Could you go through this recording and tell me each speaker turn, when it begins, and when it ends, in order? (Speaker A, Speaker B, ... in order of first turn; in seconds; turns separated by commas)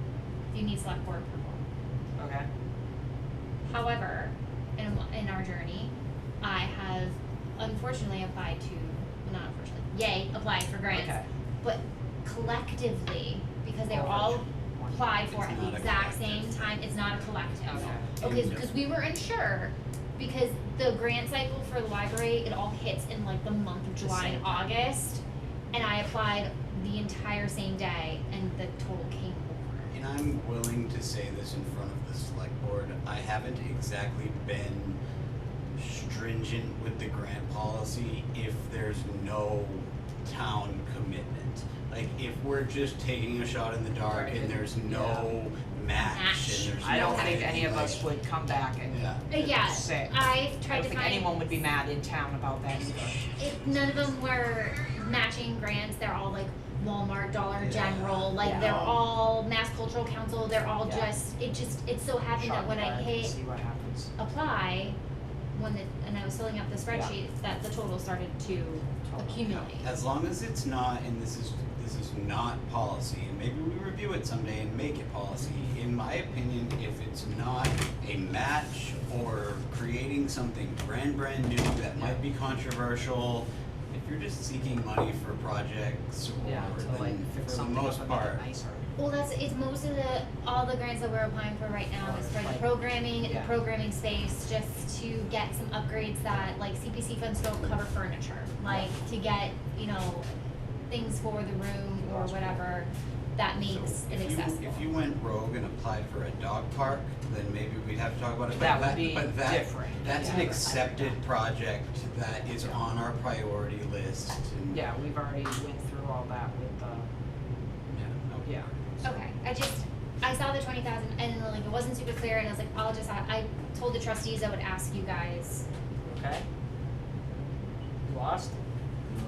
Speaker A: 0.5-1.6, Speaker B: 2.2-2.5, Speaker A: 3.7-29.9, Speaker B: 10.9-11.2, Speaker B: 13.9-15.3, Speaker C: 15.3-16.8, Speaker B: 17.6-18.1, Speaker C: 18.1-18.7, Speaker B: 24.0-24.8, Speaker C: 29.9-35.0, Speaker C: 35.8-48.0, Speaker B: 44.0-45.3, Speaker A: 46.0-47.7, Speaker B: 46.8-53.2, Speaker C: 48.9-49.2, Speaker A: 49.3-51.4, Speaker A: 53.4-63.3, Speaker C: 57.6-59.0, Speaker B: 58.4-58.8, Speaker B: 60.8-61.1, Speaker B: 62.3-64.1, Speaker A: 64.2-65.0, Speaker A: 65.5-69.9, Speaker B: 69.0-69.7, Speaker C: 69.8-88.4, Speaker B: 82.0-82.2, Speaker B: 86.4-88.9, Speaker A: 89.0-100.3, Speaker B: 92.0-93.5, Speaker A: 100.9-104.9, Speaker B: 102.0-102.6, Speaker C: 103.6-114.8, Speaker B: 108.5-111.2, Speaker A: 110.1-110.6, Speaker B: 114.7-117.1, Speaker C: 117.9-119.2, Speaker B: 118.4-118.7, Speaker A: 119.0-125.7, Speaker B: 126.0-126.4, Speaker B: 128.1-128.5